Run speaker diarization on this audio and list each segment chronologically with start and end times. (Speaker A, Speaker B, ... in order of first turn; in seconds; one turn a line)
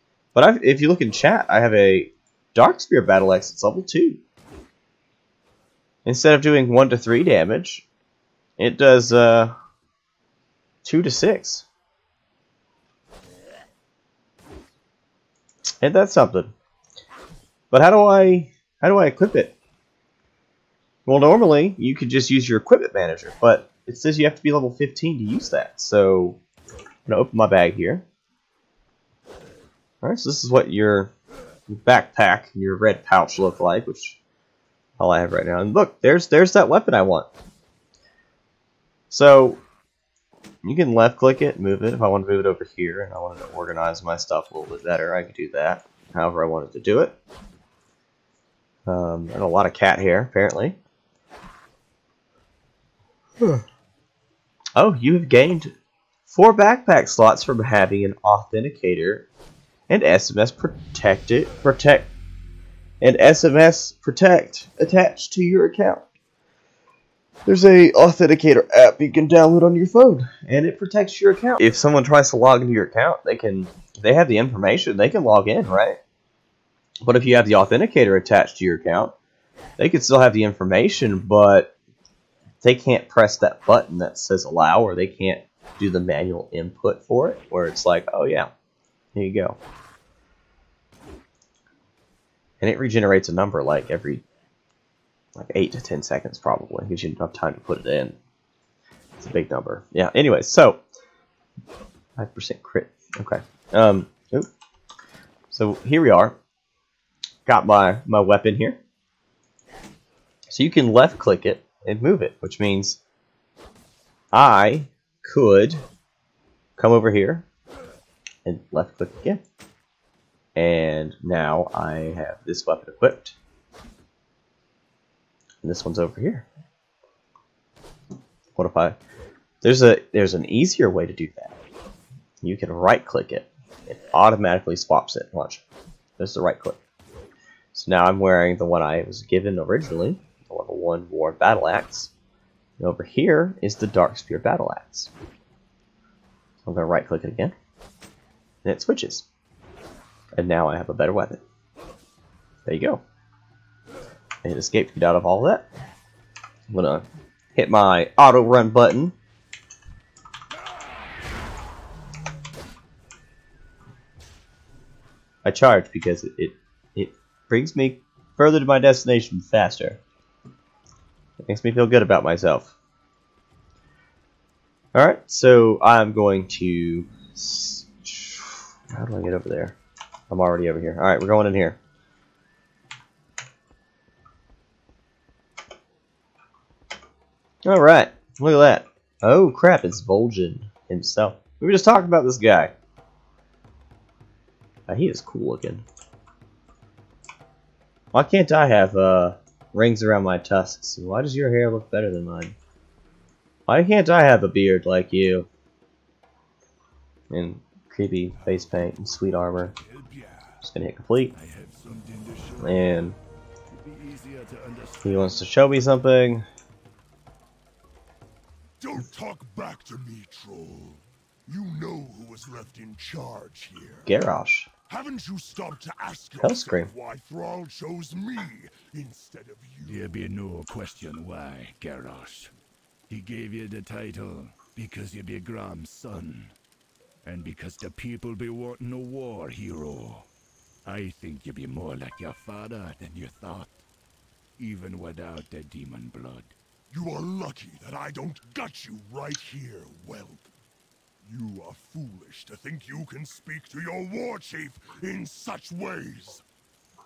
Speaker A: 0.3-4.2
Speaker A: 6.0-7.8
Speaker A: 8.6-9.6
Speaker A: 10.8-11.7
Speaker A: 15.8-16.5
Speaker A: 17.7-19.6
Speaker A: 21.1-26.4
Speaker A: 27.1-28.1
Speaker A: 30.0-31.1
Speaker A: 31.7-34.2
Speaker A: 35.0-37.3
Speaker A: 39.1-39.6
Speaker A: 40.6-47.2
Speaker A: 48.9-50.8
Speaker A: 53.4-53.6
Speaker A: 54.8-55.7
Speaker A: 56.3-59.3
Speaker A: 59.9-62.1
Speaker A: 63.0-66.0
Speaker A: 67.5-76.0
Speaker A: 77.0-79.2
Speaker A: 79.8-81.7
Speaker A: 82.6-88.5
Speaker A: 89.2-89.6
Speaker A: 92.6-94.2
Speaker A: 95.4-98.2
Speaker A: 99.2-100.8
Speaker A: 102.2-104.5
Speaker A: 105.5-106.4
Speaker A: 107.5-108.8
Speaker A: 110.5-113.0
Speaker A: 114.3-115.8
Speaker A: 116.8-117.5
Speaker A: 118.5-119.4
Speaker A: 120.6-123.3
Speaker A: 125.6-126.5
Speaker A: 128.6-129.0
Speaker A: 129.6-131.6
Speaker A: 132.4-135.6
Speaker A: 136.2-136.8
Speaker A: 137.7-142.1
Speaker A: 142.8-145.1
Speaker A: 146.7-147.6
Speaker A: 148.6-149.3
Speaker A: 150.3-151.4
Speaker A: 152.7-153.0
Speaker A: 154.4-155.7
Speaker A: 156.7-159.2
Speaker A: 165.4-170.0
Speaker A: 171.4-172.7
Speaker A: 174.9-179.8
Speaker A: 180.3-181.8
Speaker A: 187.6-192.7
Speaker A: 194.9-195.8
Speaker A: 198.1-202.6
Speaker A: 203.7-205.5
Speaker A: 207.3-209.7
Speaker B: 208.4-210.7
Speaker A: 210.6-211.3
Speaker B: 211.3-213.1
Speaker A: 212.6-213.2
Speaker B: 213.7-215.4
Speaker A: 215.0-216.5
Speaker C: 218.8-224.1
Speaker A: 224.1-224.7
Speaker C: 224.9-230.1
Speaker A: 226.4-226.9
Speaker B: 229.8-232.5
Speaker B: 233.1-236.5
Speaker B: 237.2-240.3
Speaker B: 240.8-243.8
Speaker B: 244.6-246.6
Speaker C: 246.9-250.5
Speaker C: 251.2-256.4